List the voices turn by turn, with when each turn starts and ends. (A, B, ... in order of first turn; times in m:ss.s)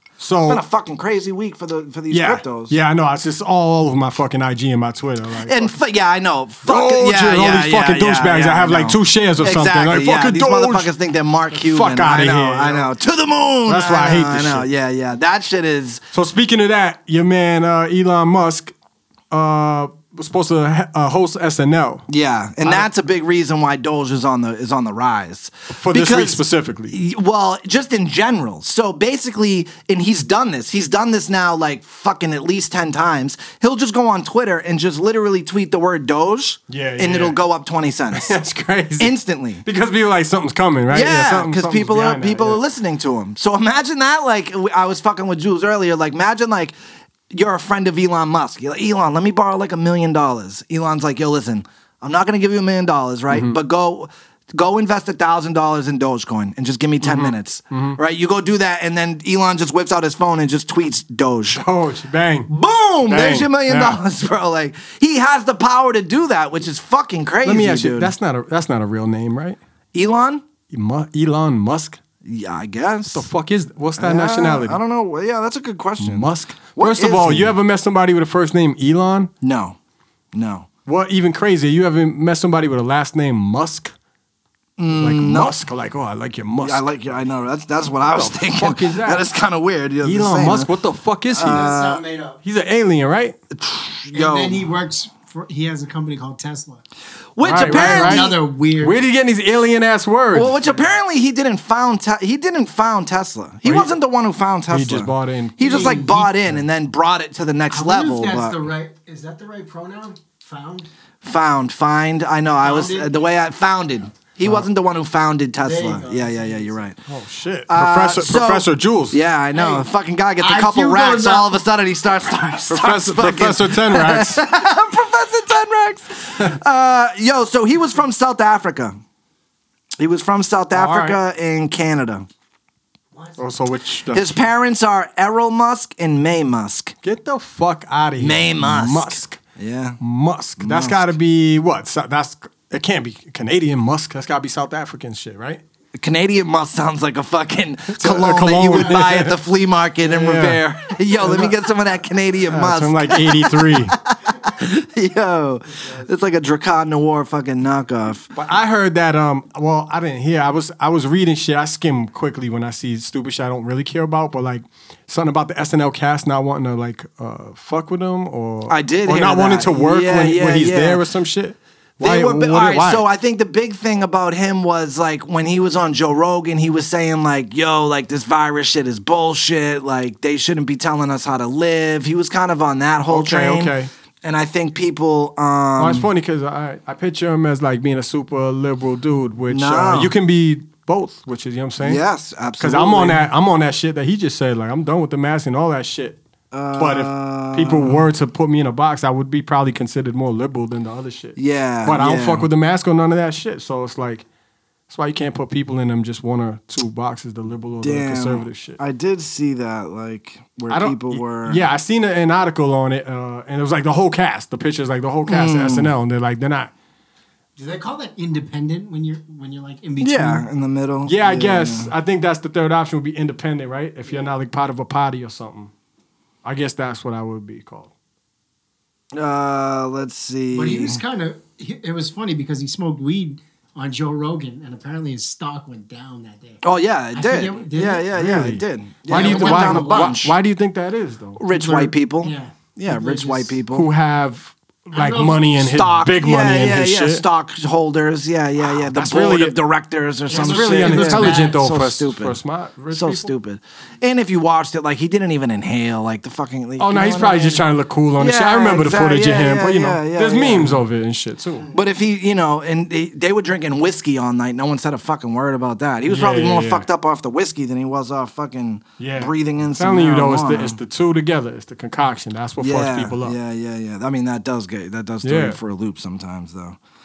0:00.2-0:00.6 A
0:00.5-0:02.8 B
0:02.1-0:05.7 A
0:05.4-0:16.0 B
0:06.7-0:10.9 A
0:11.5-0:12.9 A
0:13.7-0:14.7 A
0:16.1-0:18.7 A
0:19.3-0:22.0 A
0:22.1-0:38.4 B
0:22.6-0:22.9 A
0:25.8-0:27.0 A
0:36.7-0:37.4 A
0:38.1-0:42.6 A
0:39.0-0:39.6 B
0:40.9-0:46.8 B
0:47.3-1:01.6 B
0:53.3-0:53.6 A
0:57.0-0:58.0 A
1:01.5-1:02.5 A
1:02.5-1:08.1 B
1:03.0-1:04.0 A
1:07.4-1:09.6 A
1:09.9-1:10.4 B
1:10.7-1:12.0 A
1:12.2-1:13.3 B
1:13.1-1:14.8 A
1:14.0-1:17.5 B
1:16.0-1:19.3 A
1:19.4-1:19.8 B
1:20.3-1:20.7 B
1:20.9-1:23.9 A
1:24.8-1:25.6 B
1:24.9-1:26.8 A
1:26.6-1:30.7 B
1:28.0-1:29.2 A
1:30.0-1:31.7 A
1:31.3-1:32.0 B
1:31.4-1:32.4 C
1:32.4-1:33.4 A
1:33.5-1:34.6 B
1:34.1-1:36.8 C
1:37.4-1:38.4 B
1:37.4-1:40.6 A
1:37.6-1:39.0 C
1:40.3-1:48.6 B
1:43.6-1:44.0 A
1:44.7-1:46.6 A
1:45.6-1:46.2 C
1:47.7-1:50.9 C
1:51.2-1:57.0 B
1:52.6-1:53.2 C
1:55.6-1:56.9 C
1:57.1-1:59.2 A
1:57.7-2:09.0 B
1:59.5-1:59.9 C
2:00.4-2:01.6 C
2:02.7-2:04.4 A
2:10.0-2:12.2 B
2:10.7-2:11.2 A
2:13.4-2:14.4 A
2:14.1-2:16.9 B
2:17.0-2:19.4 A
2:18.2-2:20.0 B
2:20.0-2:25.6 A
2:20.6-2:21.1 B
2:26.0-2:38.3 B
2:27.9-2:29.4 A
2:30.0-2:30.6 A
2:31.2-2:31.6 A
2:32.5-2:34.0 A
2:38.3-2:53.0 A
2:48.7-2:51.0 B
2:52.0-3:06.1 B
3:03.1-3:03.9 A
3:05.8-3:12.0 A
3:09.5-3:10.1 B
3:11.8-3:13.2 B
3:12.6-3:16.2 A
3:16.5-3:18.0 B
3:16.8-3:24.2 A
3:21.4-3:22.5 B
3:24.9-3:28.8 A
3:27.8-3:31.6 B
3:30.7-3:36.7 A
3:35.2-3:35.9 B
3:37.6-3:40.5 C
3:40.0-3:41.9 B
3:41.0-3:45.7 A
3:46.4-3:47.9 A
3:49.1-3:51.0 B
3:50.5-3:56.6 C
3:56.6-4:00.4 B
3:57.2-3:58.1 C
3:58.1-4:01.4 A
3:59.1-4:00.1 C
4:01.4-4:03.9 B
4:01.5-4:03.6 C
4:03.7-4:07.2 A
4:04.9-4:05.5 C
4:05.6-4:12.4 B
4:08.6-4:09.6 A
4:10.3-4:11.6 C
4:10.3-4:13.3 A
4:12.9-4:17.6 B
4:16.8-4:21.7 A
4:18.2-4:20.8 B
4:21.7-4:30.8 B
4:26.0-4:26.9 A
4:29.0-4:33.4 A
4:32.6-4:36.8 B
4:35.2-4:35.6 A